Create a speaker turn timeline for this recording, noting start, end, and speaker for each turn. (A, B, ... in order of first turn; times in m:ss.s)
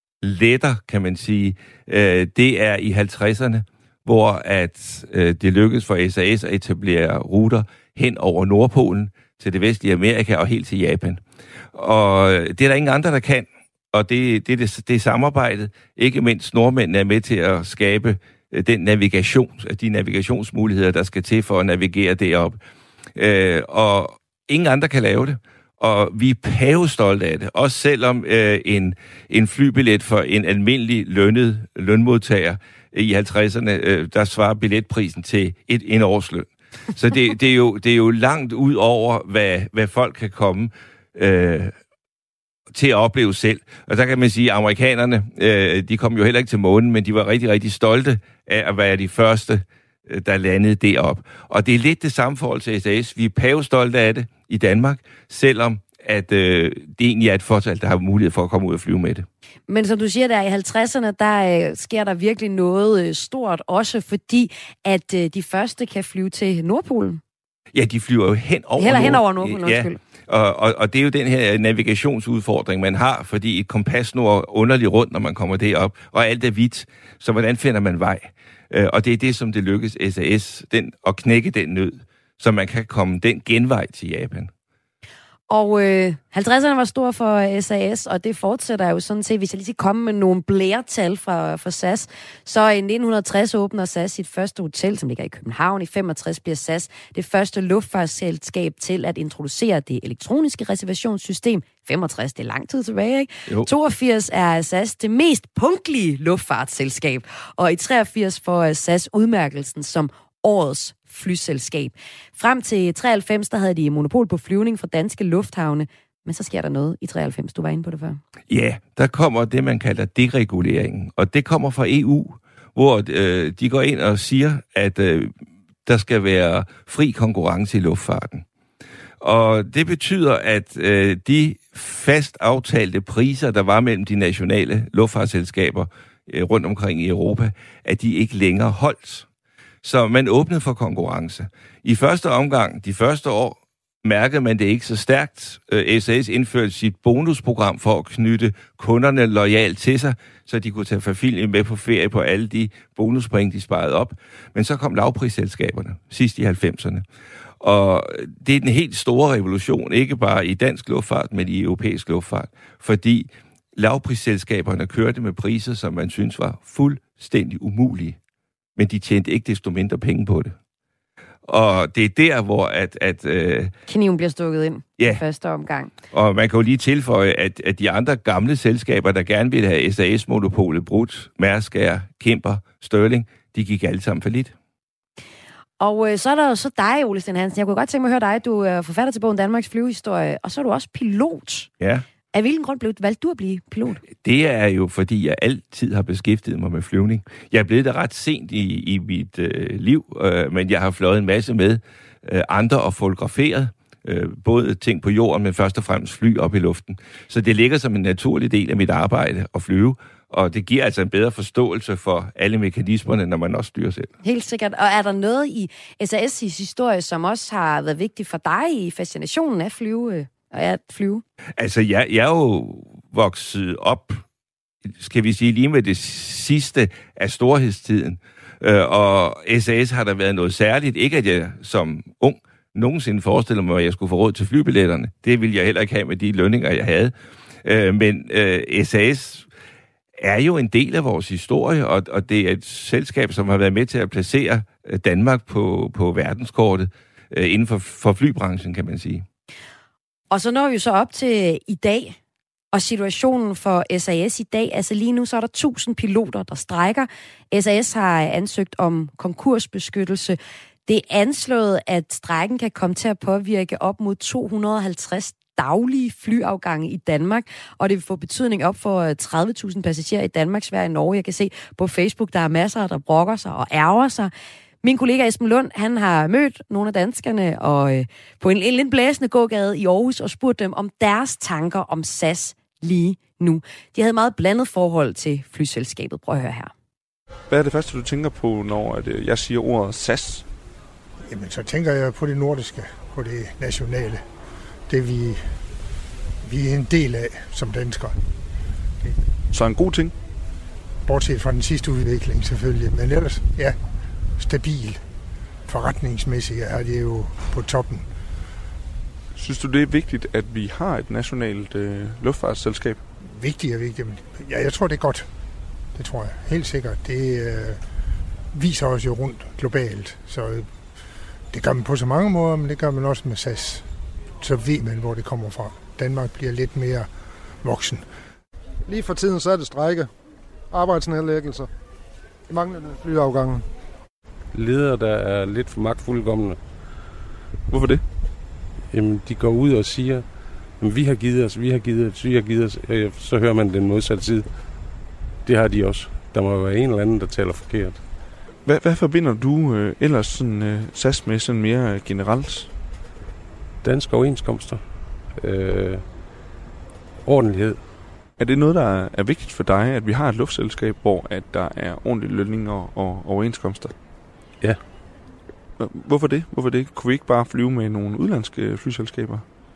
0:00.2-0:11.2 A
0:11.7-0:22.6 A
0:23.2-0:41.7 A
0:42.7-0:59.3 A
0:59.7-1:07.2 B
1:07.7-1:24.5 A
1:08.8-1:10.0 B
1:25.5-1:58.2 B
1:58.5-2:05.3 A
2:05.8-2:08.4 A
2:09.2-2:19.2 A
2:19.8-2:37.0 A
2:37.6-2:48.2 A
2:48.8-2:50.6 A
2:51.4-2:53.7 A
2:53.9-2:55.9 B
2:56.1-3:04.5 A
3:05.8-3:11.7 B
3:12.3-3:14.0 B
3:14.1-3:34.1 A
3:34.2-3:41.2 B
3:41.6-3:44.2 A
3:44.9-3:59.5 A
4:00.2-4:09.2 A
4:10.3-4:12.2 B
4:12.7-4:34.3 B
4:34.8-4:46.7 B
4:47.5-4:50.5 C
4:51.3-4:54.2 D
4:54.9-4:55.6 D
4:56.4-4:58.2 D
4:59.5-5:00.1 C
5:01.0-5:03.8 D
5:04.4-5:05.0 D
5:05.6-5:08.1 D
5:09.3-5:13.0 C
5:13.2-5:15.3 D
5:15.9-5:17.8 D
5:18.5-5:20.8 D
5:21.5-5:23.8 D
5:24.4-5:28.0 D
5:28.8-5:30.1 E
5:30.7-5:31.7 E
5:32.5-5:33.6 E
5:34.5-5:36.8 F
5:37.7-5:38.0 C
5:38.9-5:44.6 F
5:45.4-5:48.1 F
5:48.6-5:52.7 C
5:53.8-5:56.1 F
5:57.2-5:57.9 F
5:58.4-6:03.9 C
6:05.8-6:09.4 C